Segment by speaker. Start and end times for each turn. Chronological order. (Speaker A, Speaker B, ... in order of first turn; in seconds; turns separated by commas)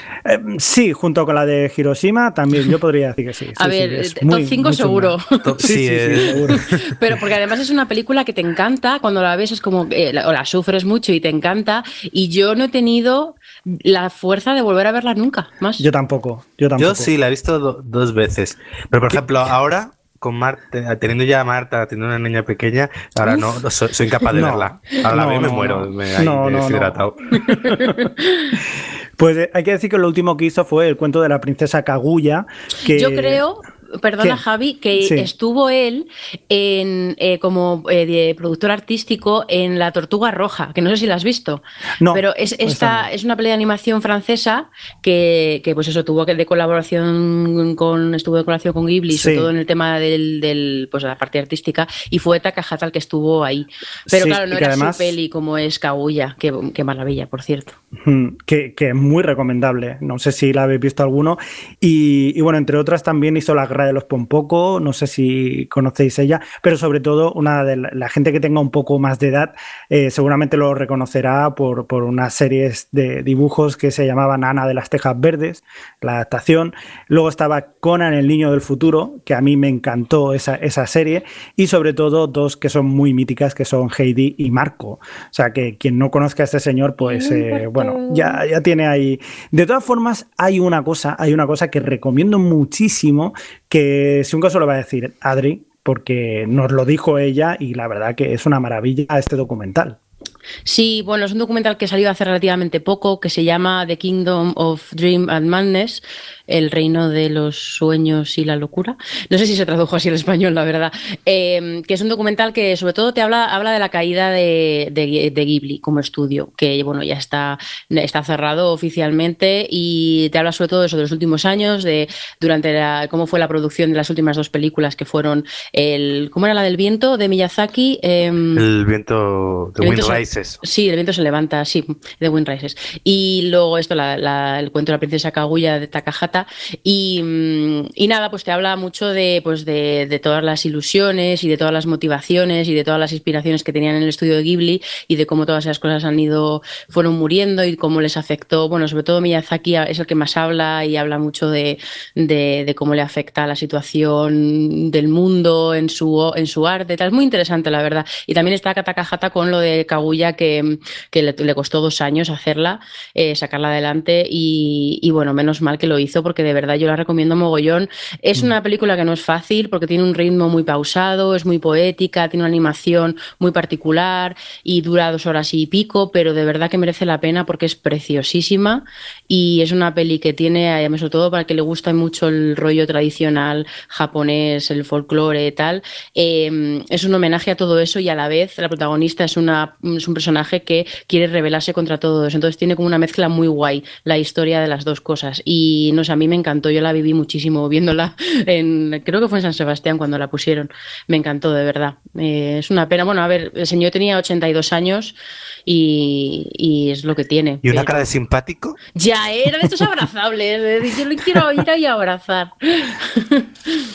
Speaker A: 0.2-6.7, Speaker B: 3.6-5.6, Speaker C: 5.4-6.8, Speaker B: 6.2-15.8, Speaker A: 15.8-17.1, Speaker C: 16.8-27.4, Speaker A: 24.3-28.0, Speaker B: 27.6-28.6, Speaker A: 29.2-33.4, Speaker B: 32.9-57.8, Speaker A: 35.0-35.3, Speaker A: 42.0-43.1, Speaker A: 49.1-49.5, Speaker A: 54.1-55.1, Speaker A: 58.0-100.0, Speaker B: 87.0-88.4, Speaker B: 100.7-128.7, Speaker C: 128.6-130.6, Speaker B: 129.8-205.2, Speaker B: 205.7-208.1, Speaker C: 207.6-208.8, Speaker B: 208.9-213.9